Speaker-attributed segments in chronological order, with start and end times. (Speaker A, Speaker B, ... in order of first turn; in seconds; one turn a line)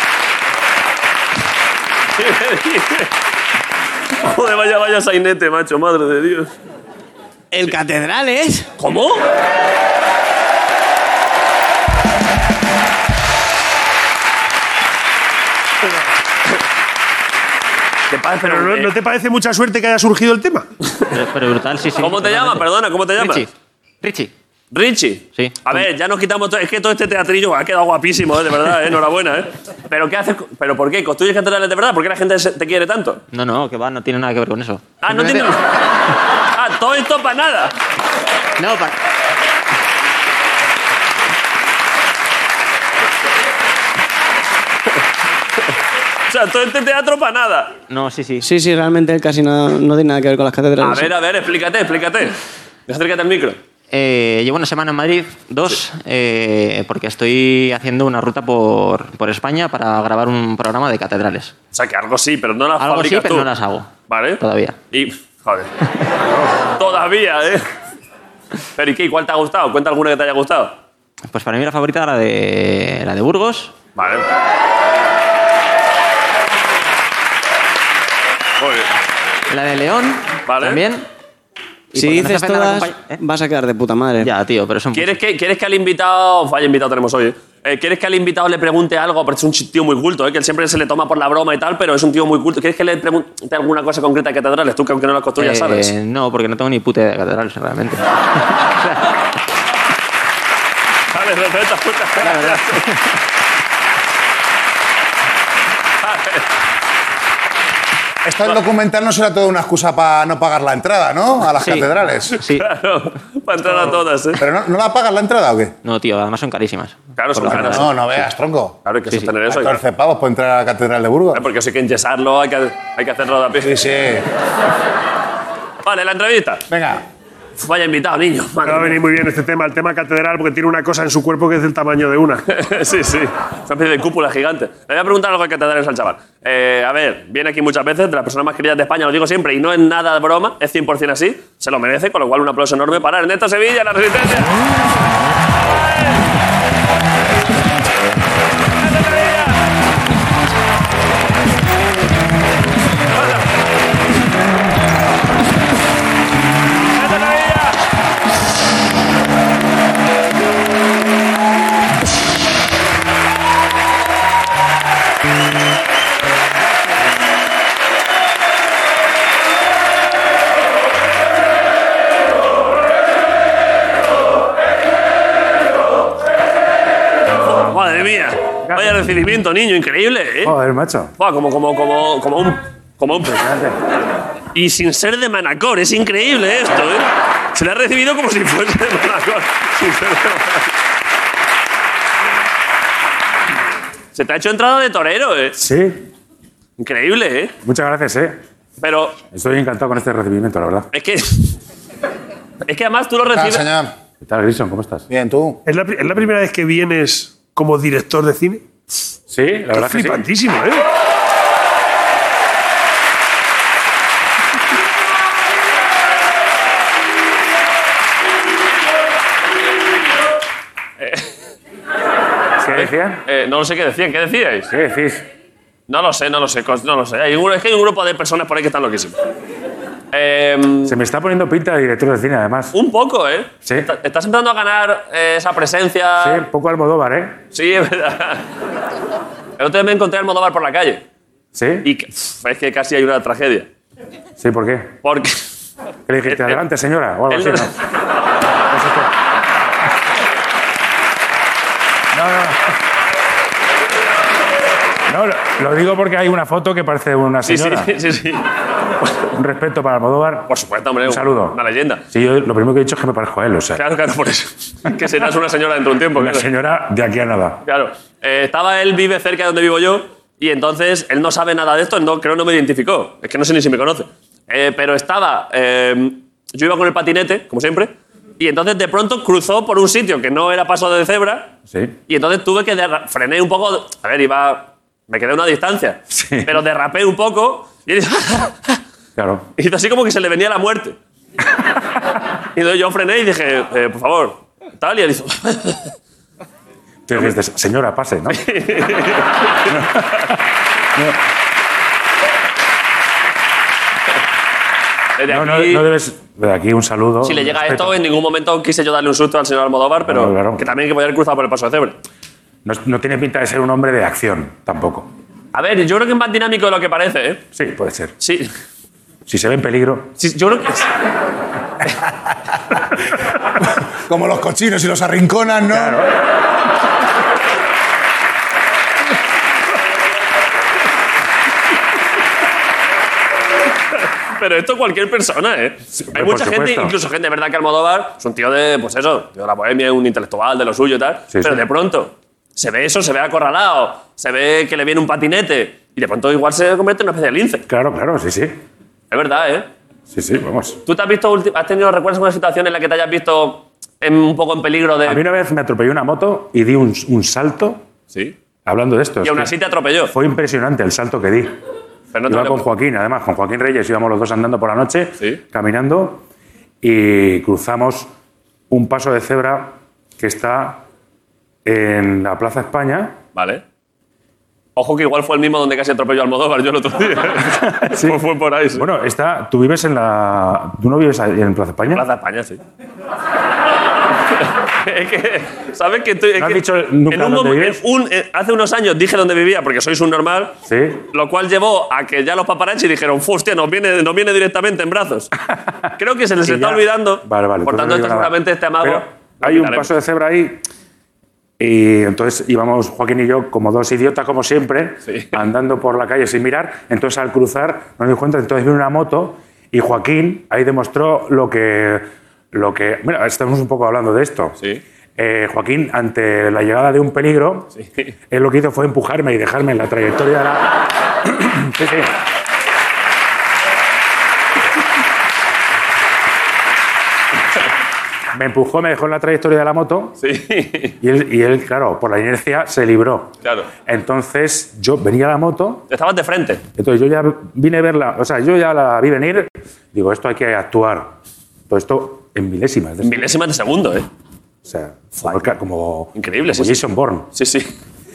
Speaker A: 2.2-3.1
Speaker A: 4.2-6.5
Speaker B: 7.5-8.7
Speaker A: 8.8-9.2
Speaker A: 18.1-18.9
Speaker C: 18.4-20.7
Speaker D: 21.1-23.5
Speaker A: 22.0-23.5
Speaker D: 24.0-24.3
Speaker A: 24.7-33.2
Speaker D: 25.3-25.9
Speaker D: 33.3-35.5
Speaker A: 35.0-35.6
Speaker A: 36.5-37.8
Speaker D: 38.6-39.0
Speaker A: 46.3-47.8
Speaker D: 47.9-48.5
Speaker B: 48.5-51.1
Speaker A: 50.8-52.4
Speaker A: 52.9-53.6
Speaker D: 53.9-61.5
Speaker A: 61.7-63.5
Speaker D: 62.8-63.9
Speaker A: 64.1-65.7
Speaker D: 64.4-64.8
Speaker A: 66.8-67.7
Speaker A: 68.8-70.8
Speaker D: 71.3-73.7
Speaker A: 74.0-74.3
Speaker A: 78.6-78.9
Speaker D: 79.5-81.0
Speaker A: 80.5-80.8
Speaker D: 81.9-83.2
Speaker B: 82.0-84.3
Speaker D: 84.2-85.2
Speaker A: 84.9-95.9
Speaker D: 95.4-98.0
Speaker A: 101.1-102.9
Speaker D: 102.2-103.0
Speaker A: 106.0-106.5
Speaker E: 108.2-112.4
Speaker D: 111.6-112.7
Speaker A: 112.5-114.4
Speaker E: 114.4-115.8
Speaker D: 115.8-118.3
Speaker A: 117.2-117.9
Speaker E: 117.4-118.8
Speaker A: 118.8-119.8
Speaker D: 119.1-119.3
Speaker E: 119.5-121.5
Speaker A: 121.3-123.8
Speaker E: 123.6-124.3
Speaker A: 125.8-126.7
Speaker E: 126.7-127.0
Speaker A: 127.6-129.0
Speaker C: 128.6-132.4
Speaker A: 132.5-144.6
Speaker A: 148.8-149.6
Speaker A: 153.1-153.5
Speaker A: 156.9-157.8
Speaker A: 177.4-180.5
Speaker F: 178.7-179.0
Speaker F: 180.4-181.1
Speaker A: 181.2-183.4
Speaker F: 183.2-183.8
Speaker A: 184.5-190.7
Speaker A: 194.1-195.6
Speaker F: 195.6-196.1
Speaker A: 196.8-197.6
Speaker F: 197.6-198.4
Speaker A: 198.8-199.2
Speaker F: 199.3-200.9
Speaker A: 200.9-201.6
Speaker A: 202.7-203.7
Speaker E: 203.3-203.9
Speaker F: 204.2-205.1
Speaker E: 205.1-205.6
Speaker C: 205.7-208.6
Speaker F: 209.3-210.2
Speaker C: 209.7-210.8
Speaker A: 221.0-221.3
Speaker F: 222.6-223.2
Speaker A: 222.7-224.7
Speaker F: 224.7-225.2
Speaker A: 225.9-229.2
Speaker A: 230.1-230.9
Speaker F: 230.8-232.8
Speaker A: 232.7-236.4
Speaker F: 236.2-237.4
Speaker A: 237.5-238.5
Speaker A: 239.6-241.0
Speaker F: 241.6-241.9
Speaker A: 241.8-243.7
Speaker F: 244.4-245.0
Speaker A: 245.0-245.4
Speaker F: 246.1-247.7
Speaker A: 246.3-246.6
Speaker A: 247.3-247.7
Speaker F: 248.7-249.1
Speaker F: 252.1-252.7
Speaker F: 255.1-257.9
Speaker A: 257.5-258.5
Speaker F: 259.4-260.5
Speaker A: 260.5-262.0
Speaker F: 261.0-261.6
Speaker F: 262.1-263.8
Speaker A: 263.8-266.5
Speaker F: 266.2-267.6
Speaker A: 267.7-281.5
Speaker A: 282.1-288.8
Speaker F: 286.1-286.6
Speaker F: 289.2-289.5
Speaker A: 289.6-291.0
Speaker A: 292.5-295.9
Speaker F: 297.1-298.4
Speaker A: 298.3-299.8
Speaker F: 299.7-300.3
Speaker A: 305.2-305.9
Speaker F: 305.3-307.9
Speaker A: 307.2-312.0
Speaker F: 310.1-310.7
Speaker F: 312.6-315.1
Speaker A: 315.5-317.4
Speaker F: 317.6-318.1
Speaker A: 318.2-318.5
Speaker F: 319.3-320.1
Speaker A: 320.2-320.9
Speaker E: 324.1-326.0
Speaker F: 325.7-326.1
Speaker A: 334.3-347.6
Speaker F: 335.9-336.9
Speaker F: 341.3-341.7
Speaker F: 347.7-348.6
Speaker A: 349.1-349.7
Speaker F: 350.1-350.8
Speaker A: 350.9-355.2
Speaker F: 355.1-357.8
Speaker F: 358.7-359.5
Speaker A: 359.2-360.1
Speaker F: 360.1-361.5
Speaker A: 362.1-362.6
Speaker F: 362.3-366.2
Speaker F: 366.8-368.1
Speaker F: 368.7-370.8
Speaker F: 371.6-373.2
Speaker A: 373.4-373.6
Speaker A: 374.8-378.9
Speaker F: 377.6-382.0
Speaker A: 381.9-382.6
Speaker A: 384.4-390.6
Speaker F: 386.4-387.8
Speaker F: 390.7-391.0
Speaker A: 391.1-395.3
Speaker A: 396.0-399.9
Speaker F: 396.4-400.6
Speaker F: 401.6-414.6
Speaker A: 405.1-405.3
Speaker F: 415.2-417.7
Speaker F: 418.3-422.1
Speaker F: 428.3-430.1
Speaker A: 430.2-430.9
Speaker F: 431.0-433.3
Speaker A: 433.4-433.7
Speaker F: 433.9-435.9
Speaker A: 435.9-436.6
Speaker F: 436.8-441.1
Speaker F: 441.7-443.3
Speaker A: 443.0-444.1
Speaker F: 444.6-447.3
Speaker A: 446.2-447.7